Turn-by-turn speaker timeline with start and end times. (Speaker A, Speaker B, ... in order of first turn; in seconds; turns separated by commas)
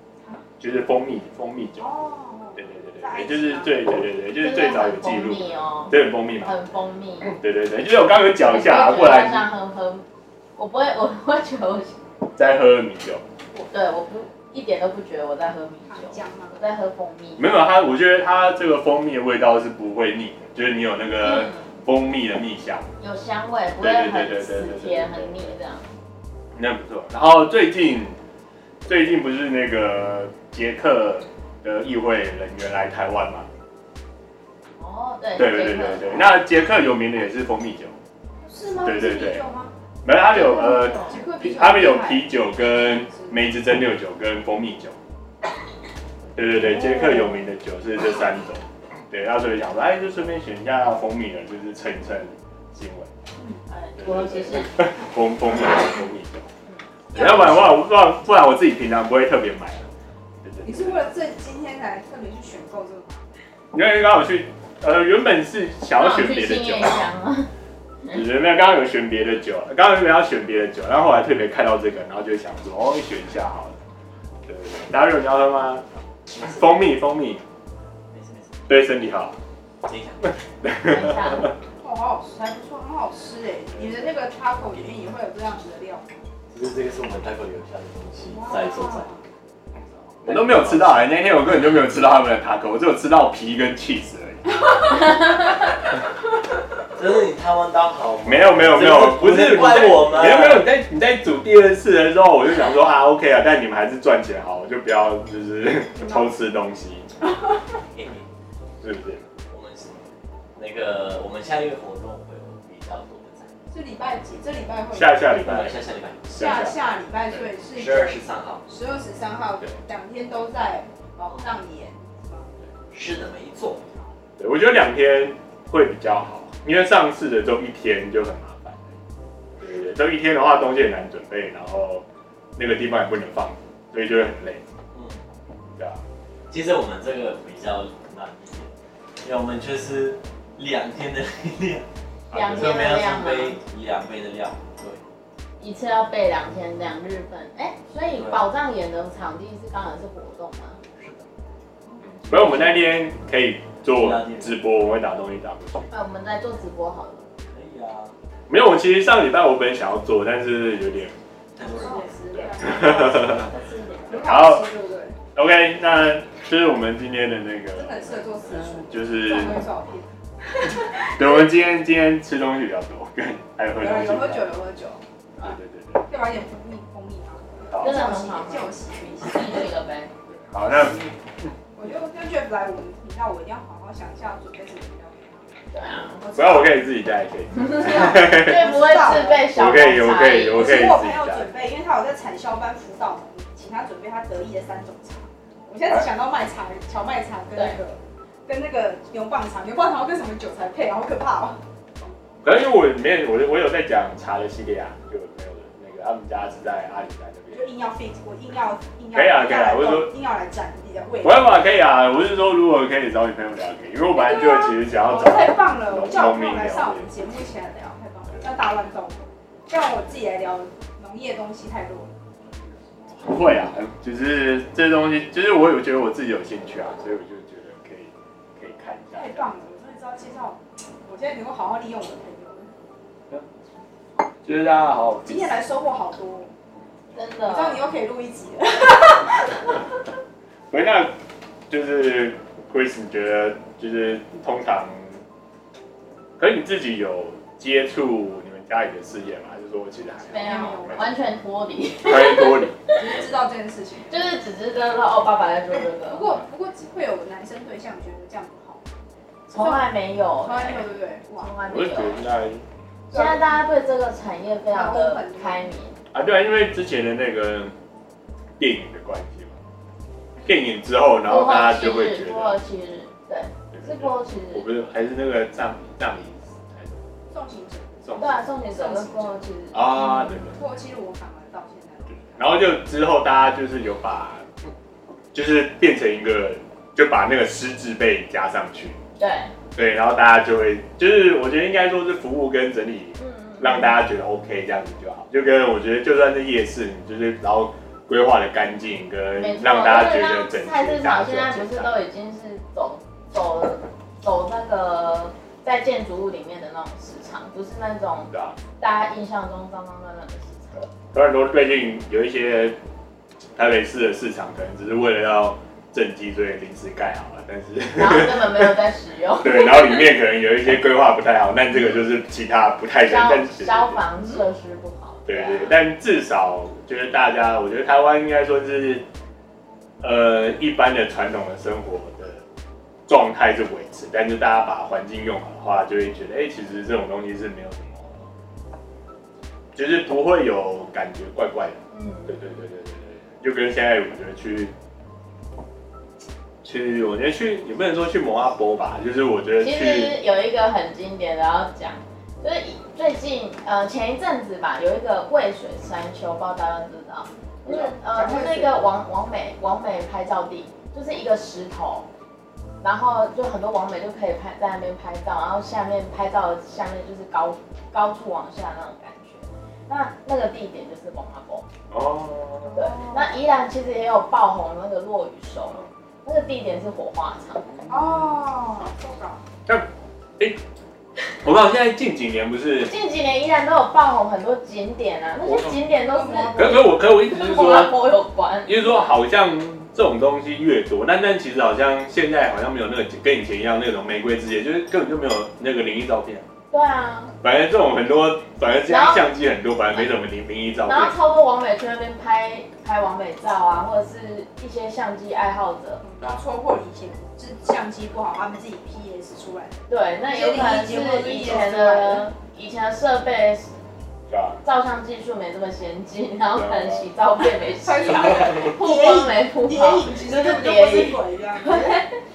Speaker A: 0.6-1.9, Speaker B: 1.8-3.8, Speaker A: 2.6-6.6, Speaker C: 4.4-7.4, Speaker A: 7.3-9.5, Speaker C: 8.4-12.0, Speaker A: 12.3-13.2, Speaker C: 13.7-17.5, Speaker B: 15.9-16.6, Speaker A: 17.4-22.9, Speaker C: 21.2-21.7, Speaker C: 23.0-25.9, Speaker A: 23.8-25.6, Speaker A: 26.6-28.2, Speaker A: 28.9-33.5, Speaker C: 34.8-36.2, Speaker A: 35.4-38.0, Speaker B: 38.4-39.7, Speaker A: 38.8-39.4, Speaker A: 40.0-45.0, Speaker C: 40.3-41.2, Speaker B: 41.0-43.5, Speaker A: 46.4-53.1, Speaker C: 46.8-47.1, Speaker B: 46.9-47.2, Speaker C: 53.7-54.7, Speaker A: 54.0-56.5, Speaker A: 57.1-59.9, Speaker B: 57.1-57.8, Speaker A: 60.4-61.0, Speaker B: 60.6-63.3, Speaker A: 63.7-67.1, Speaker C: 65.9-67.5, Speaker A: 68.1-73.8, Speaker A: 74.5-77.4, Speaker D: 78.1-78.6, Speaker A: 78.7-79.3, Speaker D: 79.8-80.3, Speaker A: 80.6-81.5, Speaker C: 80.8-81.5, Speaker B: 81.8-86.1, Speaker A: 83.7-84.1, Speaker D: 86.5-89.2, Speaker B: 88.2-89.2, Speaker A: 90.2-94.5, Speaker D: 90.2-91.0, Speaker D: 96.9-100.7, Speaker A: 98.2-107.1, Speaker B: 105.9-106.3, Speaker D: 107.9-108.3, Speaker A: 108.8-109.2, Speaker D: 109.5-110.0, Speaker D: 110.6-113.5, Speaker B: 113.7-115.4, Speaker A: 114.9-116.8, Speaker D: 115.4-116.6, Speaker B: 116.3-122.5, Speaker D: 117.7-118.6, Speaker D: 121.3-121.6, Speaker D: 122.9-123.8, Speaker A: 124.4-129.0, Speaker A: 129.6-132.1, Speaker A: 132.6-134.7, Speaker D: 134.9-135.2, Speaker A: 135.7-136.0, Speaker D: 136.5-138.7, Speaker D: 139.2-141.9, Speaker A: 142.3-142.8, Speaker C: 142.3-143.6, Speaker D: 142.5-145.0, Speaker C: 145.6-150.8, Speaker D: 148.1-148.5, Speaker D: 151.0-151.3, Speaker D: 152.3-152.9, Speaker A: 152.3-155.9, Speaker D: 153.9-154.6, Speaker C: 155.9-157.3, Speaker D: 157.5-158.2, Speaker A: 158.5-161.2, Speaker D: 161.6-164.4, Speaker B: 161.6-163.3, Speaker A: 162.3-163.5, Speaker B: 164.1-165.2, Speaker A: 164.2-164.7, Speaker A: 165.3-169.7, Speaker B: 167.7-171.1, Speaker A: 171.1-174.4, Speaker B: 173.8-175.5, Speaker A: 175.4-176.1, Speaker B: 176.1-179.7, Speaker A: 177.7-178.1, Speaker C: 177.8-180.1, Speaker A: 180.3-181.5, Speaker B: 181.8-185.5, Speaker C: 185.7-186.2, Speaker B: 186.2-186.9, Speaker A: 186.3-188.6, Speaker B: 187.7-189.5, Speaker C: 187.8-190.8, Speaker A: 189.5-191.4, Speaker B: 190.5-201.6, Speaker A: 202.4-207.7, Speaker B: 207.5-211.7, Speaker A: 209.1-210.1, Speaker A: 211.2-217.1, Speaker B: 214.1-222.2, Speaker A: 223.1-229.5, Speaker B: 229.1-232.7, Speaker A: 234.4-235.6, Speaker B: 235.2-236.5, Speaker C: 237.1-237.8, Speaker B: 237.5-239.8, Speaker A: 240.7-241.1, Speaker A: 241.7-245.2, Speaker A: 246.4-251.1, Speaker C: 250.2-252.9, Speaker B: 250.4-251.1, Speaker A: 252.0-252.8, Speaker B: 252.9-254.3, Speaker C: 254.1-256.4, Speaker B: 255.8-258.8, Speaker C: 259.5-262.2, Speaker B: 259.6-259.9, Speaker B: 260.4-261.5, Speaker A: 261.7-262.6, Speaker B: 263.1-263.6, Speaker C: 263.1-266.0, Speaker B: 264.7-265.6, Speaker A: 266.1-267.7, Speaker A: 268.6-269.6, Speaker A: 270.4-272.6, Speaker C: 271.2-274.7, Speaker A: 273.7-277.0, Speaker B: 277.3-278.1, Speaker A: 278.0-278.4, Speaker C: 278.2-280.5, Speaker B: 278.7-279.4, Speaker A: 279.7-280.6, Speaker B: 280.6-282.6, Speaker A: 282.2-284.5, Speaker A: 285.3-289.0, Speaker C: 289.2-289.5, Speaker A: 289.8-302.0, Speaker C: 293.2-294.0, Speaker C: 299.4-310.9, Speaker A: 308.3-308.6, Speaker A: 311.1-312.8, Speaker A: 313.6-318.8, Speaker C: 317.9-320.1, Speaker A: 319.4-324.0, Speaker C: 323.0-325.8, Speaker A: 325.3-329.1, Speaker A: 330.0-332.4, Speaker A: 333.1-338.3, Speaker A: 339.8-344.7, Speaker C: 341.9-342.4, Speaker A: 346.6-350.2, Speaker C: 349.6-362.1, Speaker B: 357.7-358.8, Speaker C: 362.8-371.7, Speaker A: 371.9-372.8, Speaker B: 372.7-373.3, Speaker C: 372.8-377.7, Speaker B: 377.9-379.4, Speaker A: 381.4-382.9, Speaker C: 382.9-389.1, Speaker A: 385.4-385.8, Speaker B: 386.1-386.8, Speaker A: 386.6-388.0, Speaker A: 388.7-396.5, Speaker C: 396.7-397.4, Speaker A: 397.4-401.2, Speaker C: 398.7-399.3, Speaker C: 400.8-406.0, Speaker B: 406.0-412.3, Speaker C: 409.9-413.8, Speaker A: 414.3-414.6, Speaker C: 414.6-422.1, Speaker A: 416.5-417.1, Speaker B: 417.6-422.0